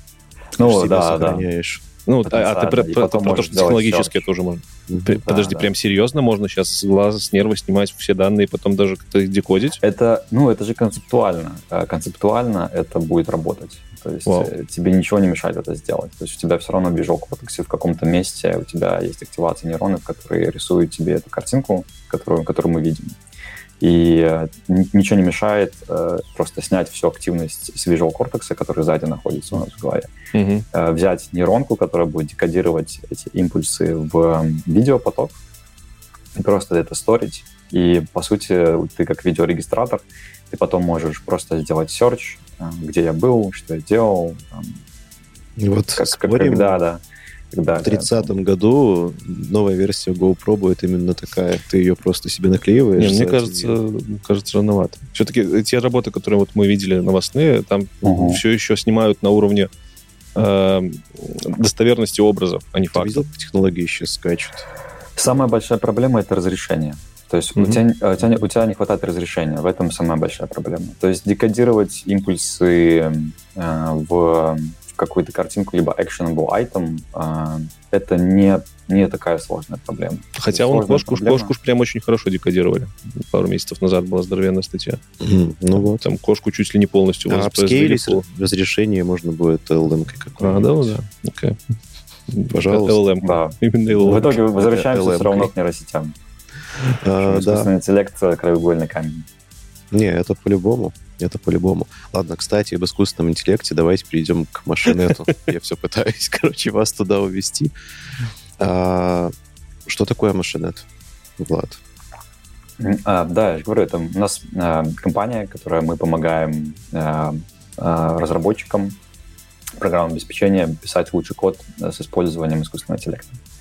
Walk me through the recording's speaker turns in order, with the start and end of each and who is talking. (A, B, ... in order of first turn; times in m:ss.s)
0:00.6-0:01.5 A
0:00.6-0:01.8 B
0:02.1-0:09.8 C
0:02.3-0:04.3 A
0:05.2-0:05.7 A
0:09.8-0:23.2 A
0:23.8-0:30.1 A
0:30.3-0:30.7 C
0:30.7-0:35.4 A
0:36.4-0:44.8 A
0:45.6-0:46.8 B
0:45.9-0:48.3 A
0:47.8-0:53.8 B
0:53.0-0:59.7 C
0:58.0-0:58.4 A
1:00.4-1:03.3 C
1:02.9-1:04.7 B
1:05.2-1:21.5 A
1:20.4-1:25.0 C
1:25.2-1:26.1 B
1:25.7-1:28.2 C
1:27.3-1:31.0 B
1:30.4-1:31.6 C
1:32.3-1:34.4 C
1:32.5-1:33.0 B
1:33.2-1:36.2 A
1:33.9-1:35.5 B
1:36.7-1:37.7 B
1:37.2-1:39.3 A
1:39.9-1:47.7 B
1:48.6-1:49.3 B
1:49.9-1:50.9 B
1:51.4-1:51.8 B
1:52.8-1:59.0 A
1:59.8-2:03.4 A